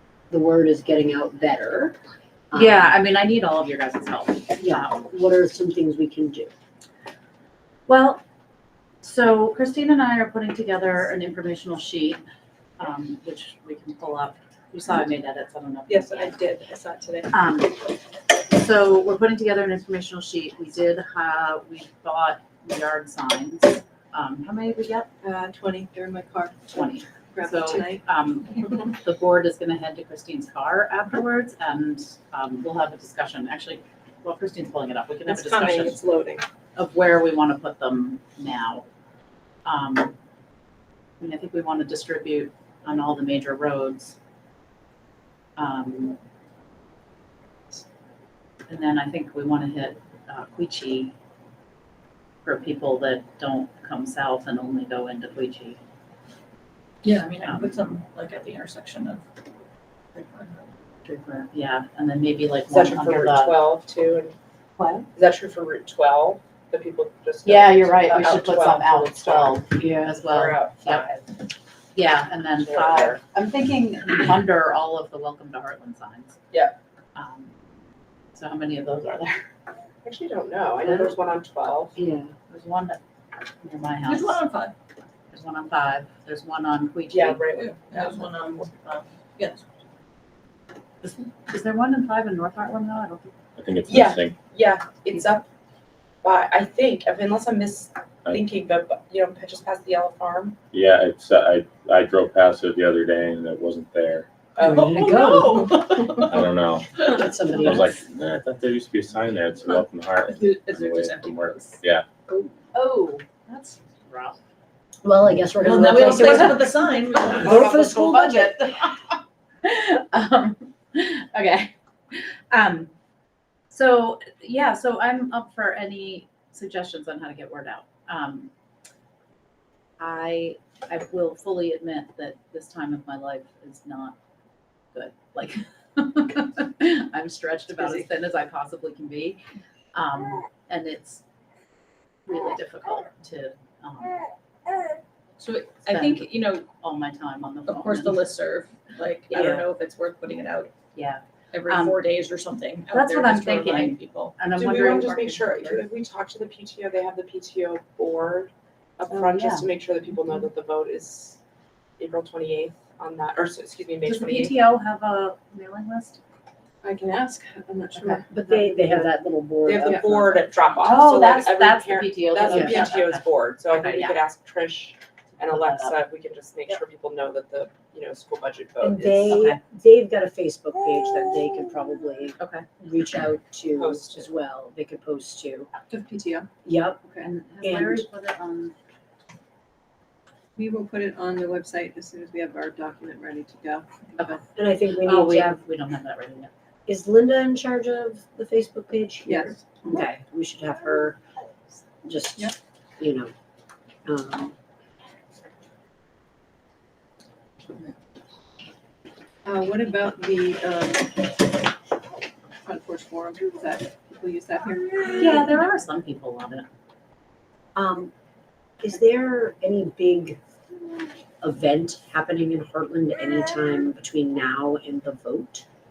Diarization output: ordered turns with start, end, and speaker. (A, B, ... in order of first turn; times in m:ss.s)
0:00.3-0:02.0 A
0:02.5-0:02.9 A
0:02.5-0:05.0 B
0:04.6-0:06.5 A
0:07.9-0:08.2 B
0:09.0-0:12.2 B
0:12.8-0:16.4 B
0:15.9-0:17.3 C
0:17.3-0:25.1 B
0:25.2-0:25.9 C
0:25.6-0:26.7 D
0:26.7-0:36.0 B
0:27.4-0:28.0 D
0:35.3-0:36.4 C
0:36.8-0:38.8 B
0:39.6-0:40.2 B
0:41.2-0:44.2 B
0:45.6-0:46.2 B
0:48.7-0:51.1 B
0:52.4-0:55.8 B
0:57.0-0:59.2 E
0:57.4-0:57.8 B
1:00.2-1:00.6 E
1:01.0-1:03.6 B
1:02.7-1:04.4 C
1:04.8-1:05.1 B
1:05.1-1:11.2 C
1:07.4-1:11.1 B
1:12.0-1:16.4 B
1:12.6-1:13.2 C
1:16.5-1:16.8 C
1:17.2-1:17.5 B
1:18.3-1:19.4 B
1:20.0-1:22.0 C
1:20.9-1:21.2 A
1:22.0-1:22.3 A
1:22.5-1:23.0 B
1:23.6-1:24.4 B
1:24.0-1:24.7 E
1:25.3-1:27.4 B
1:27.1-1:28.7 C
1:27.5-1:29.6 E
1:31.0-1:33.3 B
1:33.6-1:34.4 F
1:33.9-1:35.5 C
1:36.2-1:40.6 C
1:40.7-1:44.3 F
1:44.6-1:46.4 E
1:44.6-1:44.9 C
1:44.6-1:46.2 A
1:46.2-1:46.9 F
1:47.0-1:47.9 A
1:47.5-1:52.0 F
1:49.6-1:51.8 E
1:52.7-1:54.4 B
1:55.0-1:58.6 A
1:55.6-1:57.9 E
1:57.4-1:59.1 B
1:59.6-2:02.9 B
2:03.7-2:08.5 B
2:10.0-2:14.2 B
2:14.9-2:19.4 B
2:19.9-2:21.2 B
2:22.3-2:24.2 B
2:25.4-2:26.6 E
2:25.8-2:28.3 B
2:27.7-2:30.7 E
2:29.3-2:29.7 B
2:31.0-2:32.0 B
2:31.5-2:34.4 E
2:32.9-2:35.9 B
2:34.6-2:41.4 C
2:39.1-2:39.7 B
2:42.0-2:44.6 C
2:44.0-2:46.2 B
2:46.8-2:49.0 D
2:48.0-2:48.2 B
2:48.3-2:50.3 A
2:49.6-2:59.5 C
2:50.8-2:54.2 B
2:52.5-2:52.8 A
2:55.4-2:56.0 B
2:58.8-3:05.7 A
2:59.3-2:59.6 B
3:02.4-3:02.7 B
3:03.8-3:04.3 C
3:05.9-3:06.5 D
3:06.6-3:07.0 A
3:07.2-3:08.8 B
3:07.6-3:08.1 A
3:10.6-3:14.4 D
3:14.2-3:14.4 B
3:14.6-3:15.6 A
3:15.0-3:16.5 B
3:16.9-3:21.2 A
3:19.3-3:19.6 D
3:22.0-3:23.3 A
3:24.1-3:24.6 A
3:29.4-3:31.3 D
3:32.6-3:35.5 D
3:35.2-3:36.7 B
3:37.8-3:38.1 A
3:38.8-3:40.4 A
3:41.4-3:45.7 A